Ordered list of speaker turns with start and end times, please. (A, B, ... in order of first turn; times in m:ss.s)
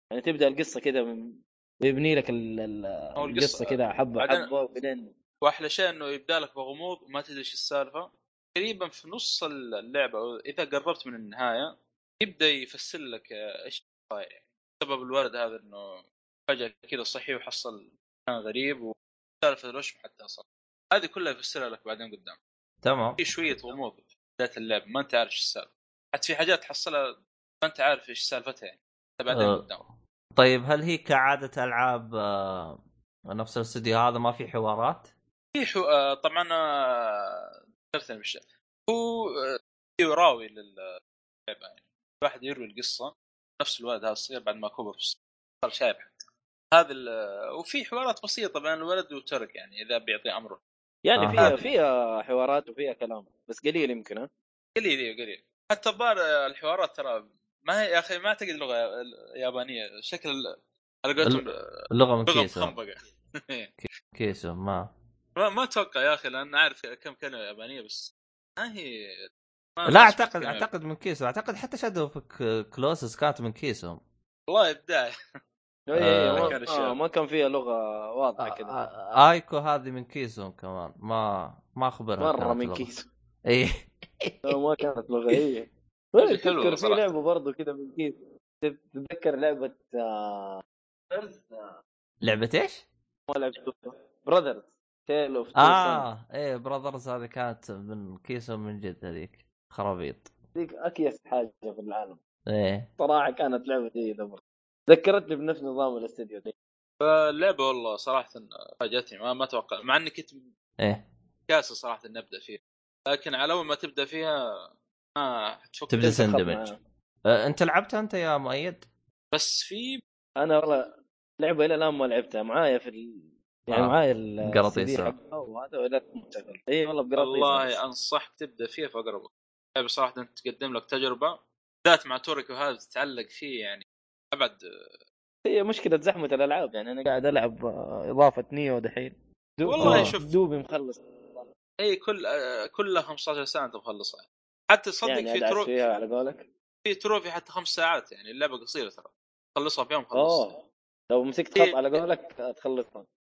0:00.1-0:05.1 A
0:03.2-0:04.5 B
0:05.4-0:22.4 B
0:22.8-0:23.3 C
0:23.2-0:27.1 B
0:27.6-0:29.8 B
0:29.3-0:29.6 C
0:30.4-0:35.1 C
0:35.6-0:40.9 B
0:41.5-0:46.2 B
0:46.7-0:50.6 B
0:51.0-0:54.3 A
0:51.2-0:51.5 C
0:51.4-0:51.7 B
0:54.8-1:00.4 B
1:01.0-1:01.5 B
1:01.2-1:02.8 C
1:02.3-1:03.7 B
1:03.8-1:04.9 C
1:05.4-1:09.3 B
1:09.8-1:10.7 B
1:09.9-1:14.0 C
1:14.5-1:15.1 B
1:15.9-1:18.8 A
1:16.0-1:16.6 C
1:16.3-1:17.0 B
1:18.4-1:22.9 C
1:22.2-1:23.1 A
1:23.5-1:24.5 C
1:24.4-1:31.8 A
1:26.2-1:27.1 B
1:32.2-1:32.9 C
1:33.3-1:36.1 A
1:35.6-1:40.3 C
1:40.6-1:42.2 A
1:42.5-1:42.9 C
1:43.0-1:46.6 A
1:47.0-1:50.4 B
1:50.8-1:51.0 C
1:51.5-1:54.4 B
1:55.2-1:56.2 B
1:55.9-1:56.7 C
1:56.0-1:56.8 A
1:57.3-1:58.9 C
1:59.3-2:00.0 B
2:00.4-2:00.9 A
2:01.4-2:07.8 A
2:03.7-2:05.1 C
2:07.2-2:14.6 B
2:15.4-2:21.4 A
2:19.7-2:20.3 B
2:19.8-2:20.1 C
2:21.8-2:25.7 B
2:25.0-2:26.5 A
2:26.8-2:30.5 B
2:30.1-2:30.6 A
2:31.1-2:33.1 A
2:31.6-2:32.0 B